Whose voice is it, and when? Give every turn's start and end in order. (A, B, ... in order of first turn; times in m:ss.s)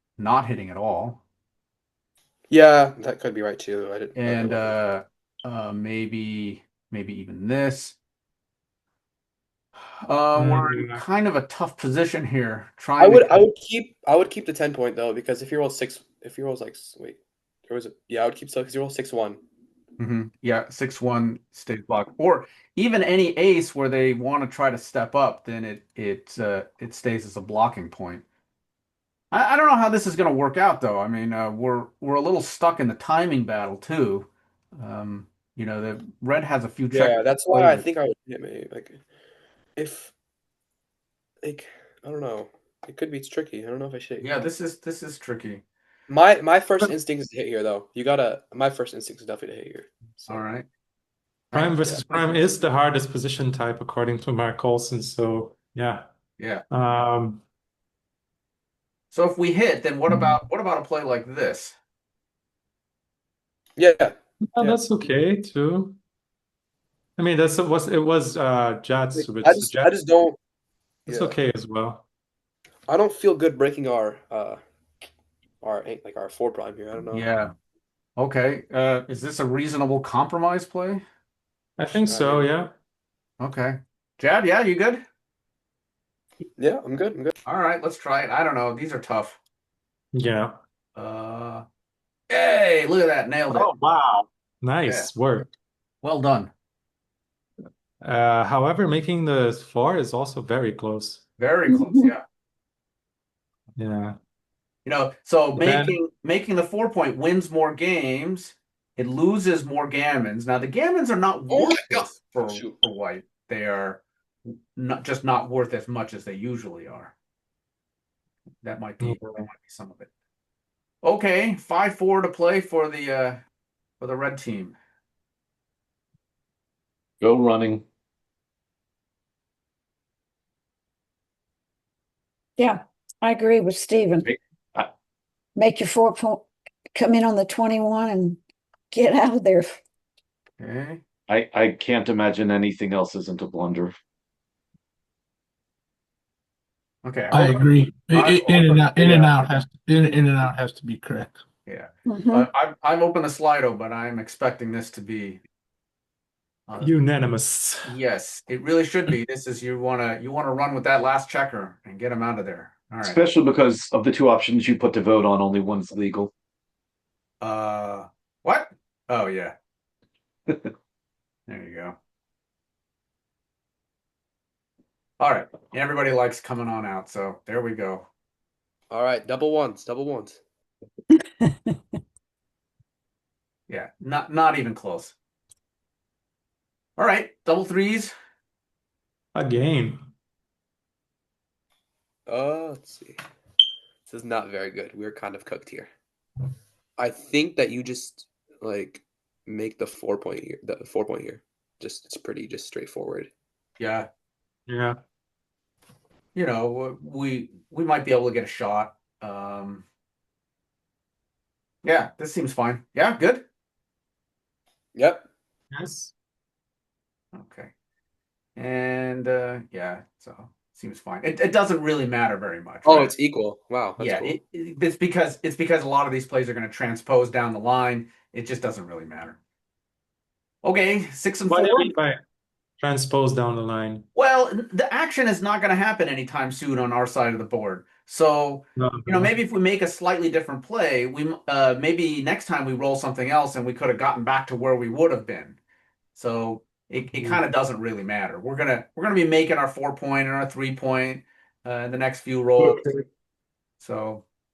0:00.2-0:01.2 A
0:02.5-0:04.7 B
0:04.2-0:08.0 A
0:10.0-0:13.4 A
0:10.3-0:11.0 C
0:13.0-0:19.4 B
0:20.0-0:28.2 A
0:29.3-0:37.8 A
0:36.9-0:39.0 B
0:39.8-0:40.1 B
0:41.4-0:44.3 B
0:44.2-0:45.6 A
0:46.1-0:50.4 B
0:50.3-0:50.6 A
0:51.5-0:52.2 A
0:51.5-0:56.1 C
0:51.5-0:52.5 B
0:56.4-0:56.6 A
0:56.7-0:57.4 C
0:59.1-1:01.8 A
1:00.1-1:00.4 C
1:03.8-1:04.8 B
1:04.5-1:06.0 C
1:07.2-1:09.9 C
1:09.2-1:10.4 B
1:11.1-1:11.4 B
1:11.1-1:12.0 C
1:12.9-1:14.6 B
1:15.6-1:17.3 B
1:17.1-1:17.5 A
1:18.2-1:21.0 A
1:21.8-1:22.7 C
1:22.0-1:22.5 B
1:23.4-1:25.0 A
1:26.6-1:27.3 B
1:27.4-1:29.4 A
1:30.1-1:30.6 C
1:30.9-1:31.6 A
1:32.3-1:33.7 A
1:33.5-1:35.5 C
1:36.0-1:36.5 A
1:38.0-1:41.2 C
1:41.4-1:42.2 A
1:41.7-1:42.1 D
1:43.8-1:44.2 C
1:44.8-1:57.1 A
1:45.6-1:46.0 C
1:51.5-1:52.8 B
1:58.6-2:00.1 A
1:59.0-1:59.4 C
2:01.0-2:03.4 A
2:04.0-2:04.8 A
2:07.2-2:07.8 E
2:12.6-2:14.3 D
2:14.2-2:14.9 E
2:15.5-2:18.4 D
2:18.9-2:19.8 D
2:20.6-2:21.0 A
2:21.3-2:23.9 E
2:27.0-2:29.6 A
2:27.3-2:31.4 F
2:31.6-2:35.4 A
2:32.0-2:32.5 D
2:36.7-2:36.9 A
2:36.8-2:37.9 C
2:37.8-2:43.2 A
2:43.0-2:46.3 E
2:47.4-2:49.5 A
2:51.5-2:52.0 A
2:55.2-2:58.1 A
2:58.9-3:00.4 B
3:03.7-3:05.2 A
3:07.0-3:08.1 A
3:09.3-3:10.0 C
3:12.3-3:13.2 B
3:14.1-3:15.9 B
3:17.0-3:23.3 B
3:23.8-3:24.1 A
3:24.7-3:25.0 C
3:26.3-3:29.8 A
3:31.8-3:33.4 A
3:34.9-3:35.2 B
3:35.7-3:36.1 C
3:37.3-3:37.7 A
3:38.6-3:43.1 A
3:42.8-3:44.4 B
3:44.0-3:49.4 A
3:50.6-3:51.9 A
3:51.5-3:52.2 C
3:52.8-3:54.0 C
3:54.1-4:05.6 A
3:58.8-3:59.3 C
4:06.1-4:12.8 A
4:07.1-4:07.4 C
4:12.6-4:13.0 C
4:13.8-4:14.2 A